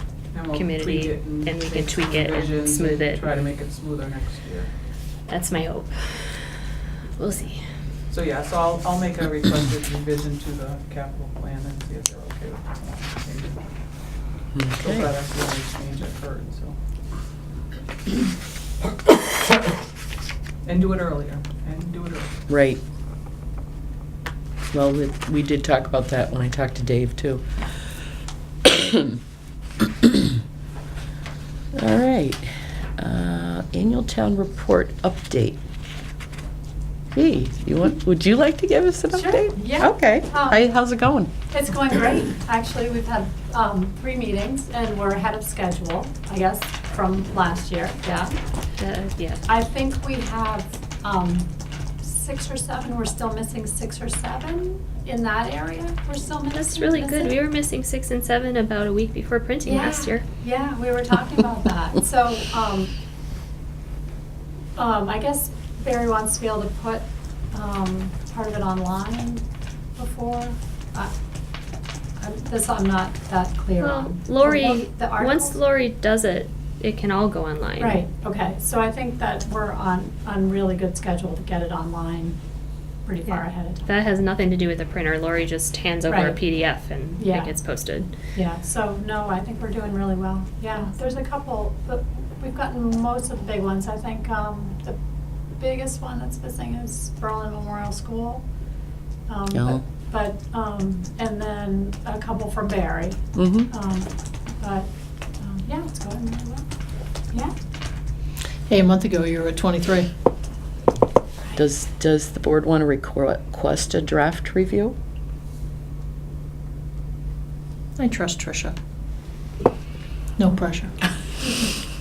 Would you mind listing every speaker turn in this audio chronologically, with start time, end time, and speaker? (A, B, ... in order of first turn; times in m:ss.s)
0:00.3-0:04.7 A
0:00.5-0:03.2 B
0:05.3-0:06.5 B
0:07.2-0:07.6 B
0:08.1-0:13.6 A
0:14.5-0:15.1 C
0:14.8-0:16.8 A
0:20.7-0:22.3 A
0:22.5-0:22.8 C
0:24.7-0:27.5 C
0:28.6-0:29.2 C
0:29.9-0:30.3 C
0:31.8-0:35.6 C
0:37.1-0:41.3 C
0:39.1-0:40.6 D
0:41.5-0:48.3 D
0:48.8-0:49.4 B
0:49.4-0:51.5 D
0:52.0-0:57.4 D
0:56.5-1:00.2 B
0:59.6-1:02.9 D
1:04.8-1:09.4 D
1:10.0-1:11.1 D
1:12.2-1:15.6 D
1:13.8-1:18.0 B
1:17.8-1:22.4 D
1:23.1-1:23.9 D
1:23.3-1:28.1 B
1:26.1-1:26.4 D
1:27.2-1:27.5 D
1:28.3-1:35.0 D
1:35.6-1:38.4 D
1:39.3-1:44.9 D
1:39.5-1:39.8 C
1:43.4-1:43.7 C
1:45.4-1:46.7 D
1:48.7-1:50.1 E
1:51.6-1:55.0 C
1:58.0-1:58.8 E
2:00.4-2:00.9 E
2:01.4-2:01.8 D